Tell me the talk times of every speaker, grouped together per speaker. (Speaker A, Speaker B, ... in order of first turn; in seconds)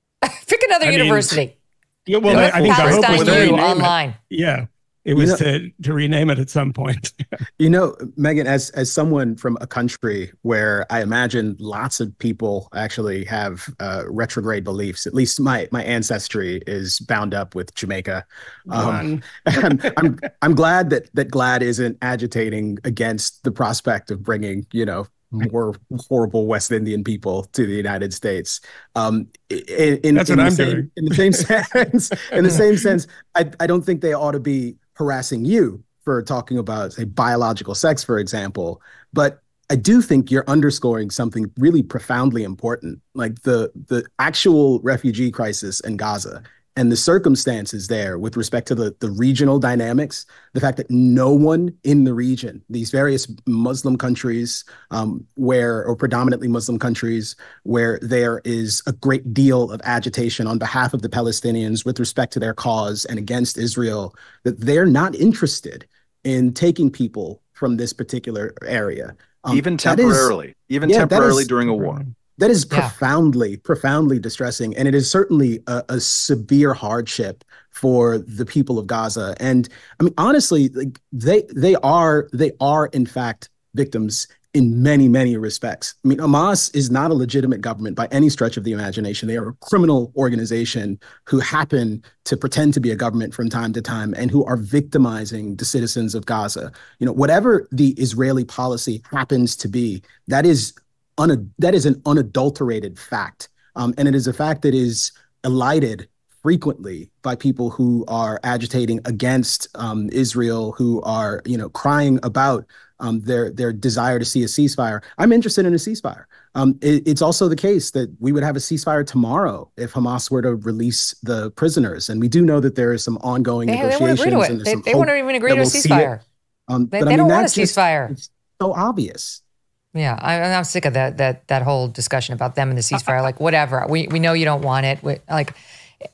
Speaker A: 0.2-1.5, 2.3-4.2, 123.7-126.2, 126.9-128.1, 129.9-135.6
Speaker B: 0.8-1.4, 2.1-7.1, 18.7-19.2, 30.1-31.4, 32.3-32.9, 71.7-72.1
Speaker C: 2.2-3.6, 69.5-72.0
Speaker D: 5.1-5.4, 7.6-70.3, 70.8-71.5, 72.4-126.1, 126.7-129.4